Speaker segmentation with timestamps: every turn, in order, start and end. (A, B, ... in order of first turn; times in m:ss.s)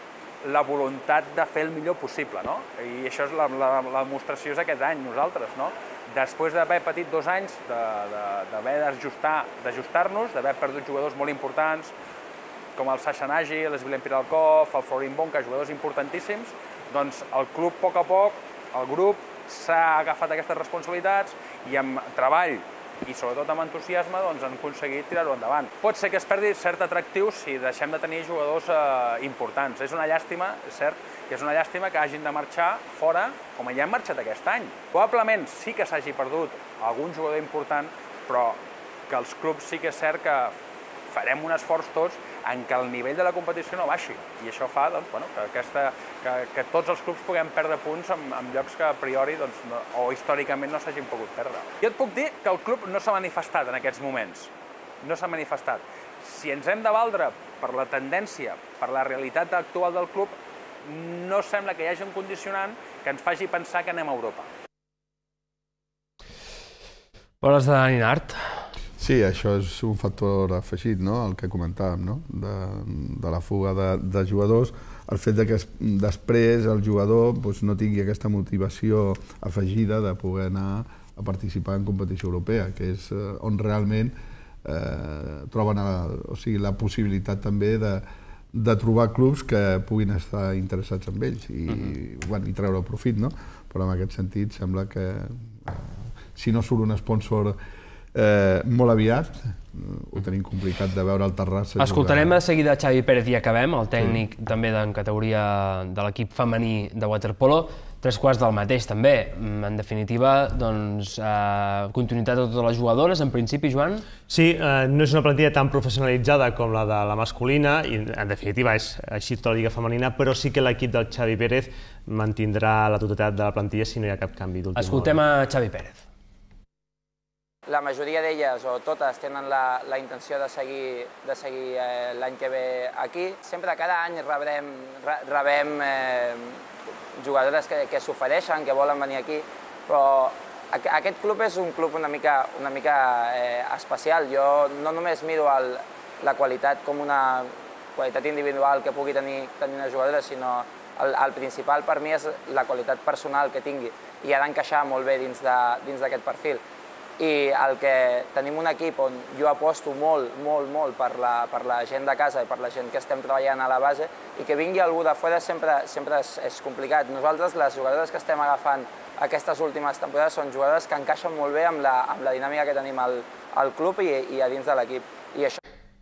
0:00.4-0:11.9 A
0:12.8-0:40.6 A
0:41.1-0:54.5 A
0:55.0-1:04.5 A
1:07.4-1:08.6 B
1:09.0-1:37.6 C
1:38.1-1:42.3 C
1:41.8-1:54.1 B
1:54.3-2:05.2 D
2:04.8-2:06.0 B
2:07.7-2:16.6 E
2:17.2-2:36.6 E
2:37.2-2:55.6 E